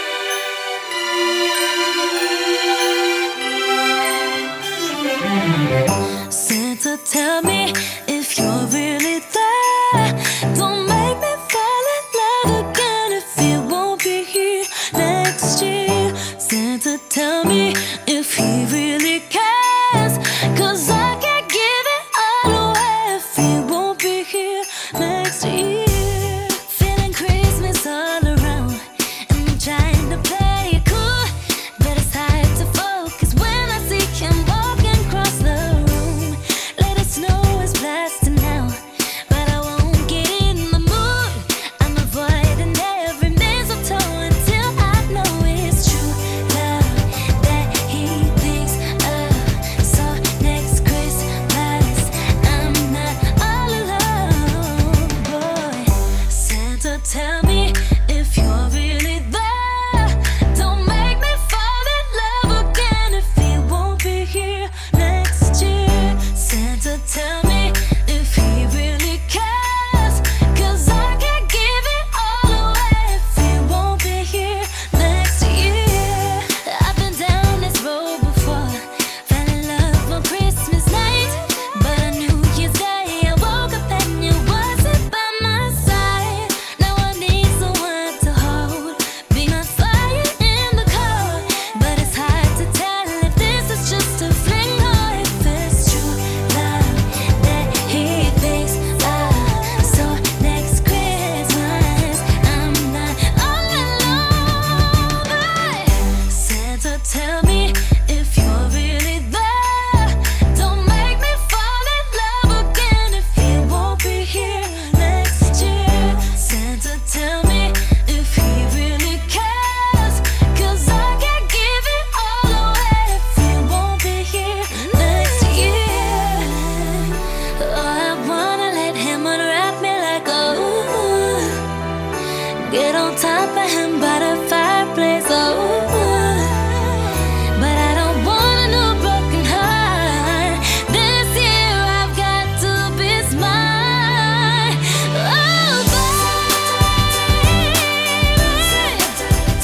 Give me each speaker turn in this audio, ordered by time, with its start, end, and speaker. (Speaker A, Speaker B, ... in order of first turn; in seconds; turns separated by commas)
Speaker A: 6.3-131.6, Speaker A: 132.6-149.2